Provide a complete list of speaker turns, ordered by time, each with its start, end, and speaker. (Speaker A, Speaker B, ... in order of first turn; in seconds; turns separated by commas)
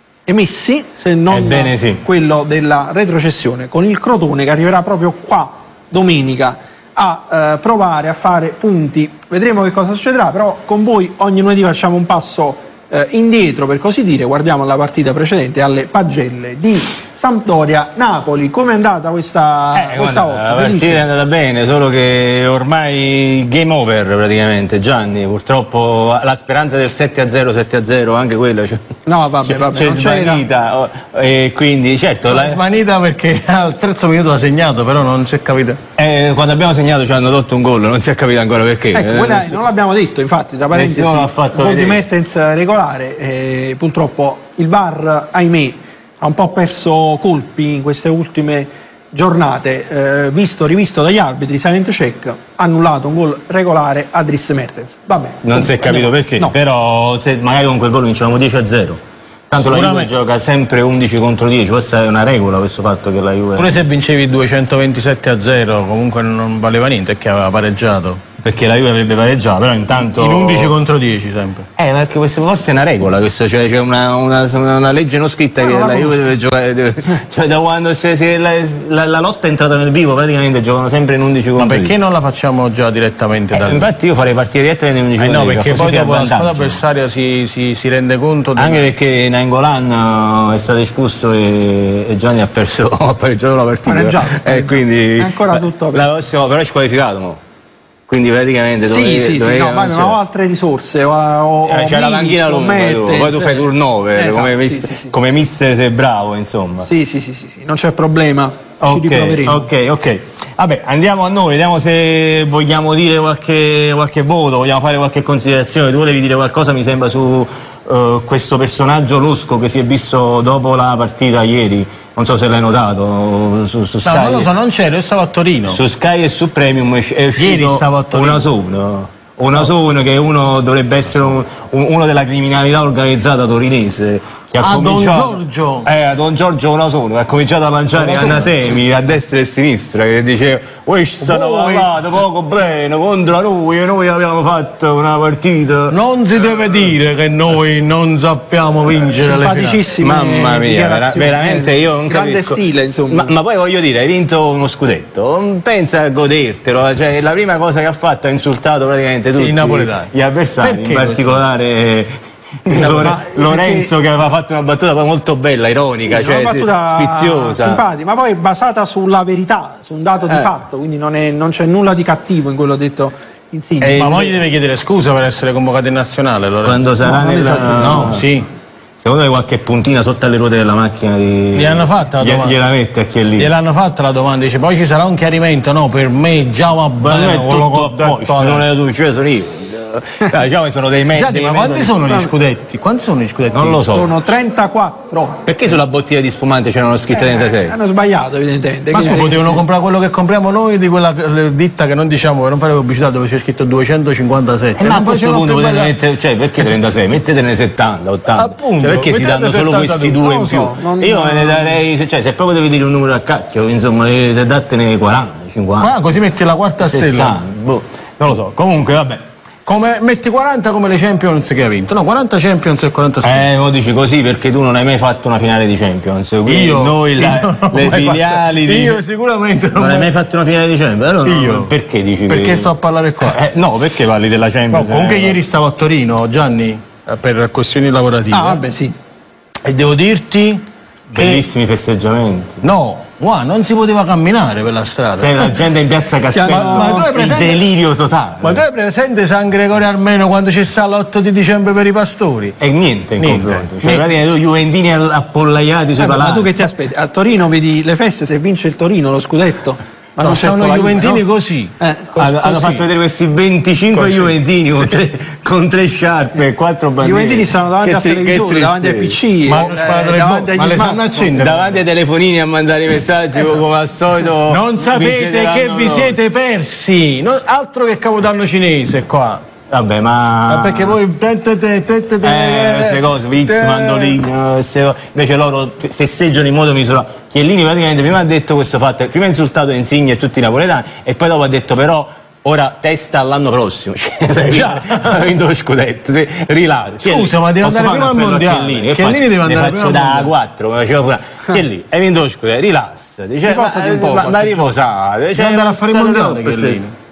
Speaker A: 0.3-21.0, Speaker B: 1.3-2.0, Speaker B: 19.7-28.8, Speaker A: 29.1-30.4, Speaker B: 29.4-32.6, Speaker C: 32.3-35.8, Speaker B: 36.0-39.6, Speaker A: 38.9-56.5, Speaker B: 40.7-42.0, Speaker B: 55.4-63.8, Speaker C: 59.6-60.1, Speaker C: 63.6-68.2, Speaker B: 68.4-70.7, Speaker C: 70.1-71.7, Speaker B: 71.8-81.9, Speaker A: 75.6-76.2, Speaker C: 81.6-83.8, Speaker B: 83.5-86.8, Speaker C: 85.2-88.9, Speaker B: 88.5-97.4, Speaker A: 93.8-96.0, Speaker B: 98.1-100.2, Speaker A: 98.8-105.1, Speaker B: 101.7-106.9, Speaker A: 106.8-109.7, Speaker B: 108.8-124.5, Speaker C: 124.0-125.8, Speaker B: 125.7-146.9, Speaker C: 127.4-128.5, Speaker C: 134.6-135.8, Speaker C: 138.0-138.5, Speaker C: 141.3-141.8, Speaker C: 145.9-149.8, Speaker A: 149.2-153.3, Speaker B: 150.0-162.1, Speaker C: 159.4-161.4, Speaker B: 162.6-167.8, Speaker A: 162.7-163.9, Speaker A: 166.1-174.2, Speaker B: 173.8-174.3, Speaker C: 173.8-176.9, Speaker B: 176.6-178.2, Speaker A: 177.0-178.1, Speaker C: 177.8-178.4, Speaker B: 179.0-183.5, Speaker C: 181.5-182.5, Speaker C: 183.4-188.6, Speaker B: 187.0-192.2, Speaker C: 191.1-193.9, Speaker B: 193.5-194.1, Speaker A: 193.8-195.4, Speaker B: 195.4-197.7, Speaker A: 197.1-199.6, Speaker C: 198.9-205.9, Speaker B: 204.8-216.0, Speaker C: 208.3-210.3, Speaker A: 210.2-211.8, Speaker C: 215.8-217.4, Speaker B: 216.8-219.2, Speaker C: 219.7-223.4, Speaker B: 223.2-229.0, Speaker C: 226.5-230.1, Speaker B: 229.8-232.7, Speaker C: 231.2-231.7, Speaker C: 232.3-233.4, Speaker B: 233.2-235.4, Speaker C: 234.7-238.6, Speaker A: 238.3-238.9, Speaker C: 239.6-240.6, Speaker B: 241.1-242.6, Speaker C: 241.1-241.4, Speaker C: 242.6-245.6, Speaker B: 245.2-248.6, Speaker A: 246.3-247.1, Speaker C: 246.5-247.6, Speaker C: 248.4-252.6, Speaker B: 252.6-256.7, Speaker C: 253.2-254.1, Speaker A: 256.0-261.2, Speaker C: 260.2-262.8, Speaker A: 261.8-262.1, Speaker B: 262.2-269.2, Speaker C: 263.9-264.3, Speaker A: 267.0-271.3, Speaker C: 269.4-271.8, Speaker B: 271.3-276.2, Speaker C: 274.5-279.4, Speaker B: 279.7-281.0, Speaker C: 280.5-284.2, Speaker B: 282.2-306.8, Speaker C: 294.5-295.2, Speaker C: 297.0-300.3, Speaker A: 303.4-304.6, Speaker C: 305.4-306.9